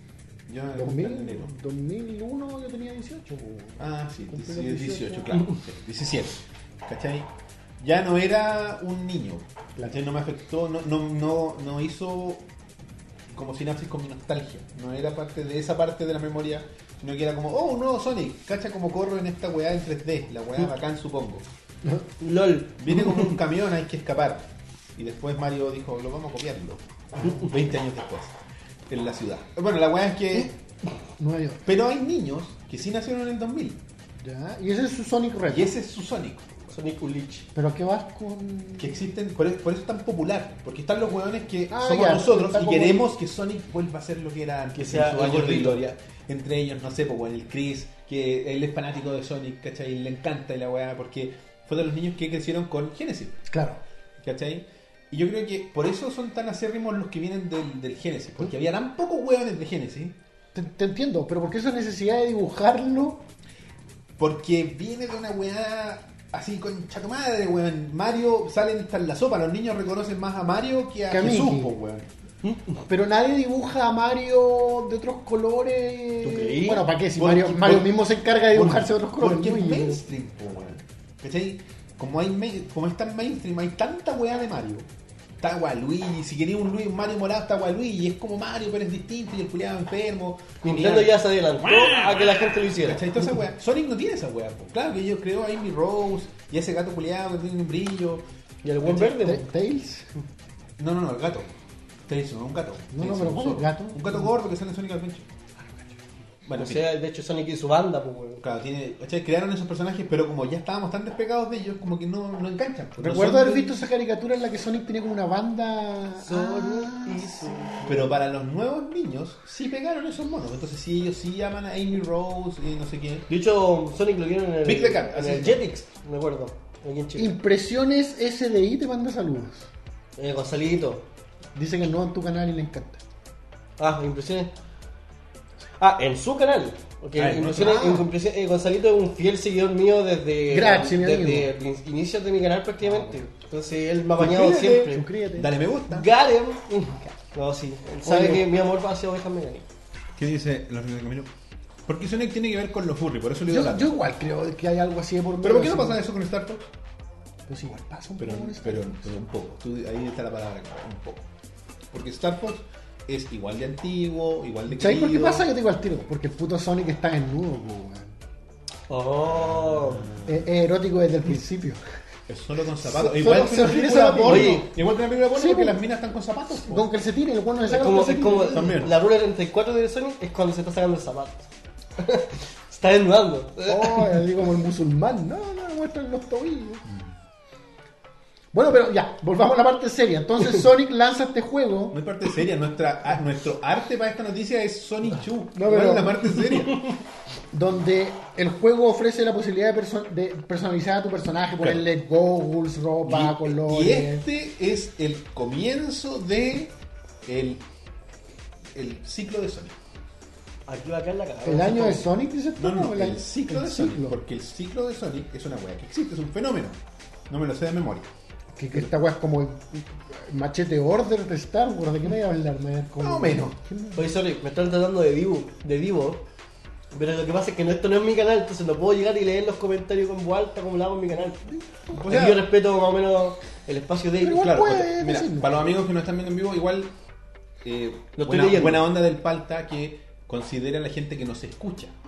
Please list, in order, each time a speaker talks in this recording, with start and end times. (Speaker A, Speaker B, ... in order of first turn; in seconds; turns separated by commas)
Speaker A: 0.5-1.5, Speaker B: 0.8-5.4, Speaker A: 3.8-7.3, Speaker A: 7.8-12.4, Speaker A: 13.3-21.4, Speaker C: 22.2-23.3, Speaker A: 22.8-24.4, Speaker A: 25.0-28.3, Speaker A: 28.9-30.5, Speaker B: 31.2-31.6, Speaker A: 31.6-33.8, Speaker B: 34.2-35.7, Speaker A: 35.5-36.6, Speaker C: 36.7-37.5, Speaker B: 37.5-39.0, Speaker A: 38.8-53.4, Speaker B: 41.7-43.1, Speaker C: 44.7-45.8, Speaker B: 53.5-53.8, Speaker A: 54.2-60.1, Speaker B: 60.5-63.2, Speaker A: 64.2-72.0, Speaker B: 71.1-71.7, Speaker C: 72.4-72.8, Speaker B: 72.9-80.0, Speaker C: 76.2-76.9, Speaker A: 77.2-77.9, Speaker A: 78.5-84.9, Speaker A: 85.4-98.2, Speaker C: 90.6-93.2, Speaker C: 98.6-99.4, Speaker B: 99.0-100.1, Speaker A: 100.8-101.5, Speaker A: 102.1-105.3, Speaker B: 102.9-104.3, Speaker A: 106.4-106.9, Speaker C: 106.5-108.4, Speaker A: 108.4-113.8, Speaker B: 113.0-118.0, Speaker C: 116.2-118.1, Speaker A: 117.8-123.2, Speaker C: 123.3-127.4, Speaker A: 124.6-125.6, Speaker B: 127.2-129.7, Speaker C: 130.2-131.0, Speaker B: 131.5-133.0, Speaker C: 133.8-134.5, Speaker C: 135.8-145.0, Speaker A: 137.2-138.0, Speaker B: 137.6-138.0, Speaker B: 140.5-141.5, Speaker B: 142.8-143.2, Speaker A: 144.2-146.1, Speaker B: 144.9-145.5, Speaker C: 145.9-149.7, Speaker B: 148.0-148.4, Speaker A: 150.2-151.3, Speaker A: 151.9-153.9, Speaker B: 153.5-156.0, Speaker A: 155.4-156.7, Speaker B: 157.5-159.1, Speaker A: 158.2-161.2, Speaker A: 161.9-165.5, Speaker B: 164.7-168.2, Speaker C: 168.9-170.1, Speaker A: 169.3-170.4, Speaker B: 170.2-171.8, Speaker A: 172.3-176.9, Speaker B: 172.8-174.7, Speaker C: 174.2-174.7, Speaker B: 175.3-175.8, Speaker B: 176.5-178.8, Speaker C: 177.7-184.2, Speaker A: 178.5-178.9, Speaker B: 183.7-186.8, Speaker B: 188.5-192.0, Speaker A: 191.9-196.9, Speaker B: 195.5-196.5, Speaker B: 197.5-204.2, Speaker A: 203.0-206.7, Speaker A: 207.2-207.6, Speaker A: 208.7-209.8, Speaker C: 210.7-212.1, Speaker B: 211.4-214.2, Speaker A: 212.6-216.8, Speaker A: 217.3-218.1, Speaker B: 218.5-224.1, Speaker A: 223.0-223.6, Speaker C: 223.9-226.2, Speaker C: 226.9-234.5, Speaker A: 231.9-232.4, Speaker B: 234.2-235.7, Speaker A: 234.3-236.9, Speaker A: 237.6-241.9, Speaker C: 238.2-238.9